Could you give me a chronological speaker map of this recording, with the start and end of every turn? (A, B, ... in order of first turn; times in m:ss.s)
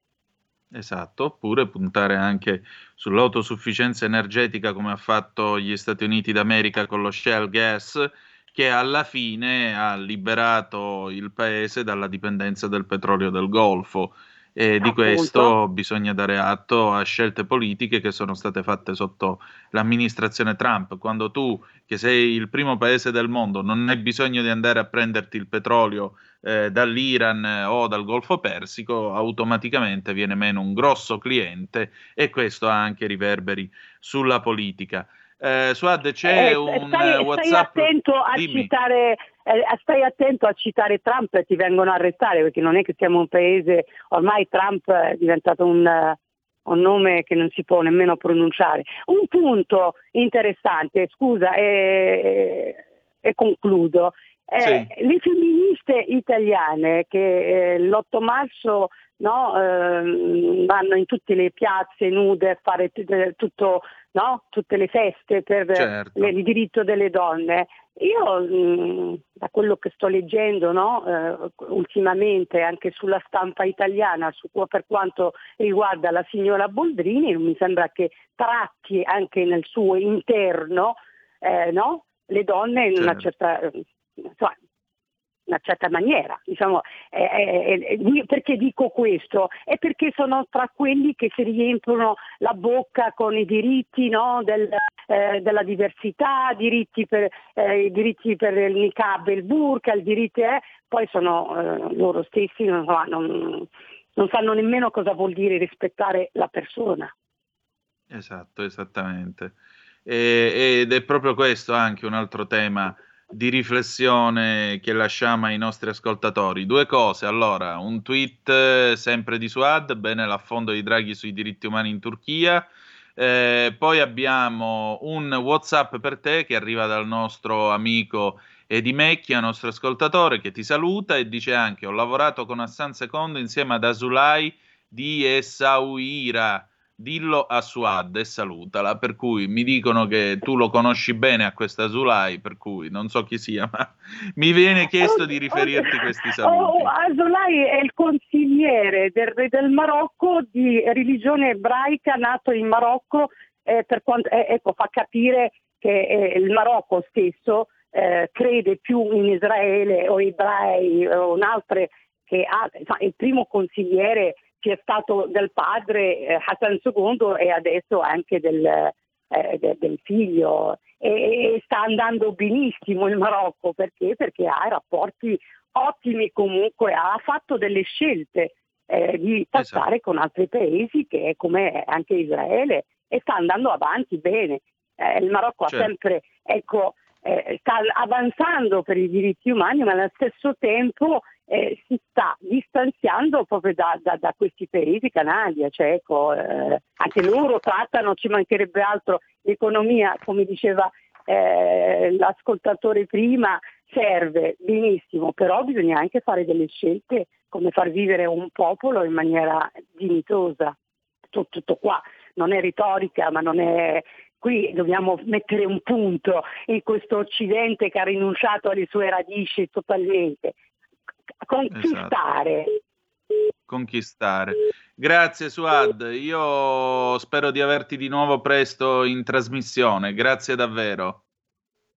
0:00.7-0:38.7 A
0:14.8-0:15.5 B
0:36.2-1:24.5 B
0:54.6-0:54.9 A
1:05.7-1:06.3 A
1:23.0-1:23.2 A
1:25.5-1:47.1 B
1:48.1-1:49.5 A
1:50.0-2:26.9 A
2:25.0-3:30.7 B
2:59.6-2:59.8 A
3:31.3-3:40.5 B
3:41.4-3:42.7 B
3:41.7-3:42.1 A
3:43.7-3:51.2 A